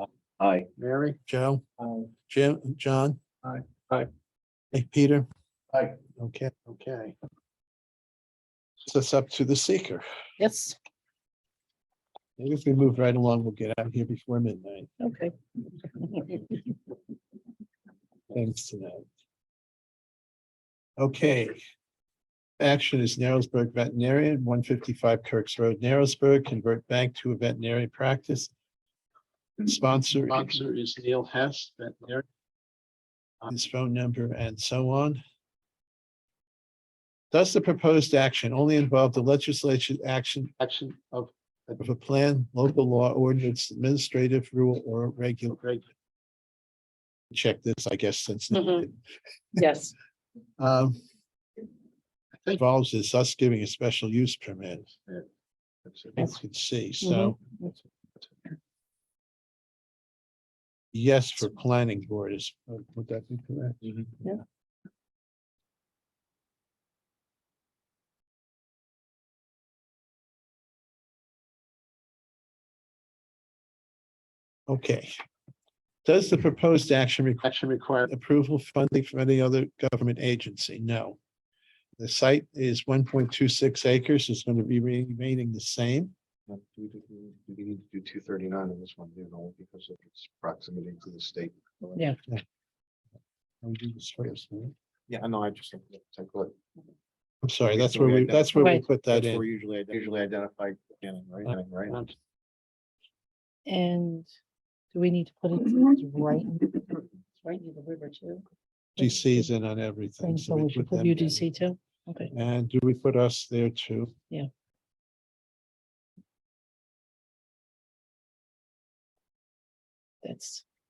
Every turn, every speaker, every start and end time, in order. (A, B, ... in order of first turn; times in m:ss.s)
0:00.7-0:01.2 A
0:01.2-0:01.6 B
0:02.3-0:03.2 B
0:04.7-0:05.3 B
0:06.2-0:06.7 B
0:06.7-0:07.1 A
0:08.8-0:10.0 B
0:10.4-0:10.8 C
0:12.4-0:14.9 B
0:15.0-0:15.3 C
0:16.0-0:16.4 C
0:18.3-0:19.0 B
0:21.0-0:21.5 B
0:22.6-0:28.5 B
0:29.6-0:32.2 B
0:33.4-0:35.2 B
0:37.3-0:45.8 B
0:47.3-0:49.0 B
0:48.5-0:48.8 C
0:49.6-0:49.9 C
0:50.6-0:51.0 B
0:52.5-0:54.9 B
0:55.8-0:56.2 A
0:56.2-0:57.4 B
0:57.0-0:57.7 C
1:00.9-1:03.9 B
1:14.7-1:15.1 B
1:16.0-1:21.2 B
1:22.0-1:26.1 B
1:26.5-1:32.0 A
1:33.6-1:34.7 B
1:35.1-1:36.5 A
1:37.4-1:39.4 B
1:37.7-1:42.1 A
1:38.6-1:38.8 C
1:41.5-1:42.0 B
1:43.6-1:44.3 C
1:44.9-1:48.4 C
1:49.0-1:51.5 B
1:49.0-1:49.5 C
1:50.2-1:52.3 C
1:52.3-1:54.1 B
2:00.2-2:00.6 C